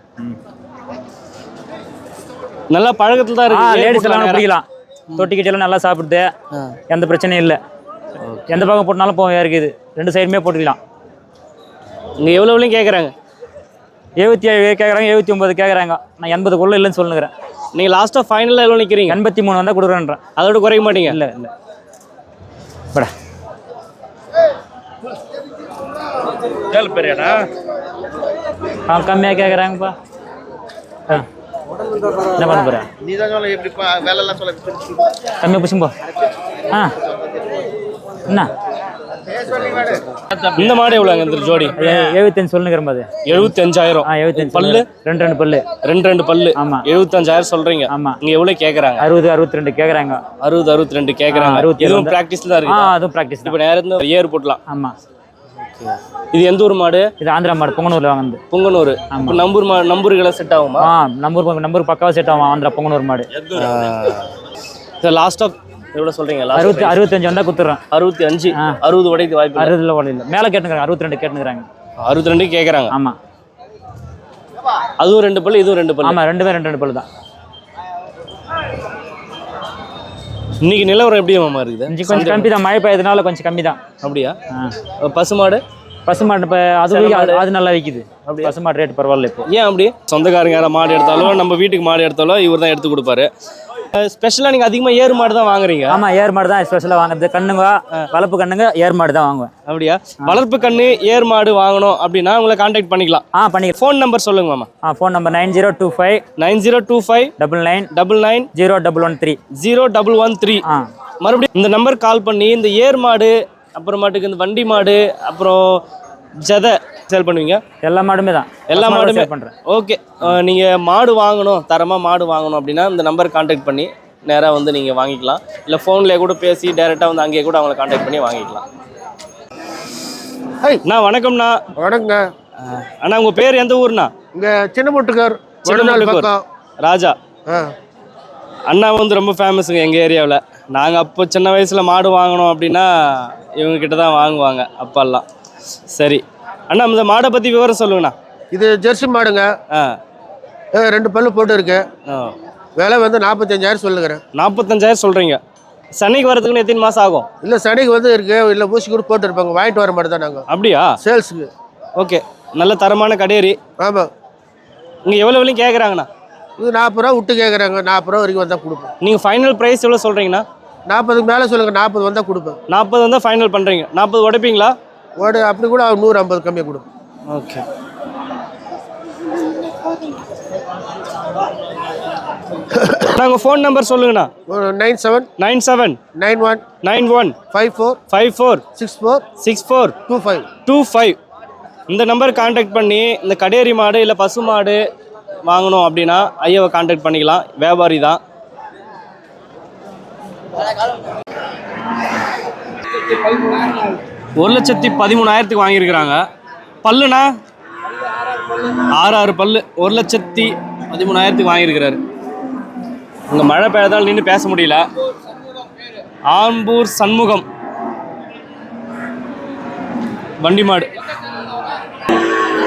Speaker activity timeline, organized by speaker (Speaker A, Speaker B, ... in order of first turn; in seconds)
Speaker A: 2.7-4.5, 8.2-8.6, 12.2-13.1, 17.7-19.2, 20.4-21.2, 26.7-27.4, 40.5-42.1, 43.2-44.9, 45.8-49.0, 50.4-54.6, 55.6-57.1, 58.5-60.9, 63.5-64.3, 65.0-67.0, 67.9-69.7, 72.0-72.9, 75.0-76.2, 80.6-82.5, 84.0-84.3, 85.0-85.6, 86.9-87.4, 88.2-88.5, 89.5-93.3, 93.9-96.0, 99.7-103.2, 103.8-104.7, 106.4-107.3, 107.9-108.5, 109.5-110.6, 111.2-115.8, 116.4-117.6, 118.7-128.6, 130.8-131.6, 132.6-134.1, 135.6-136.3, 136.8-137.1, 138.7-145.2, 145.9-148.1, 152.1-152.3, 154.3-155.4, 155.9-157.3, 160.5-160.9, 162.0-163.6, 165.1-166.1, 169.0-170.4, 172.7-174.7, 177.3-177.7, 183.1-184.3, 185.4-186.0, 186.8-187.4, 188.1-188.6, 189.4-189.9, 190.7-191.2, 191.9-194.8, 195.5-198.2, 204.4-206.2, 206.8-207.3, 208.5-212.0, 213.3-214.8, 216.3-217.4, 220.4-220.9
Speaker B: 3.5-4.6, 5.2-6.3, 6.9-7.6, 8.5-10.8, 14.2-17.3, 19.1-20.2, 21.1-21.5, 28.9-29.9, 32.3-32.9, 35.4-35.9, 38.3-38.5, 41.8-43.5, 44.0-45.6, 46.6-46.8, 47.9-48.2, 49.0-50.2, 51.3-53.5, 54.7-54.9, 57.2-58.4, 59.1-59.4, 60.8-63.3, 66.5-67.8, 69.5-71.7, 72.9-73.2, 76.0-77.0, 81.9-83.8, 86.0-89.5, 95.9-99.5, 103.3-103.7, 104.8-106.2, 107.4-107.9, 108.5-109.4, 117.8-119.5
Speaker C: 33.2-34.4, 131.7-132.2, 134.3-136.4, 137.5-137.7, 148.5-149.5, 150.7-151.9, 152.8-154.2, 157.4-160.4, 161.0-161.5, 163.8-164.1, 166.6-168.9, 170.8-172.6, 175.2-176.8, 182.8-183.0, 184.5-185.3, 186.1-186.7, 187.5-188.0, 188.8-189.2, 190.1-190.5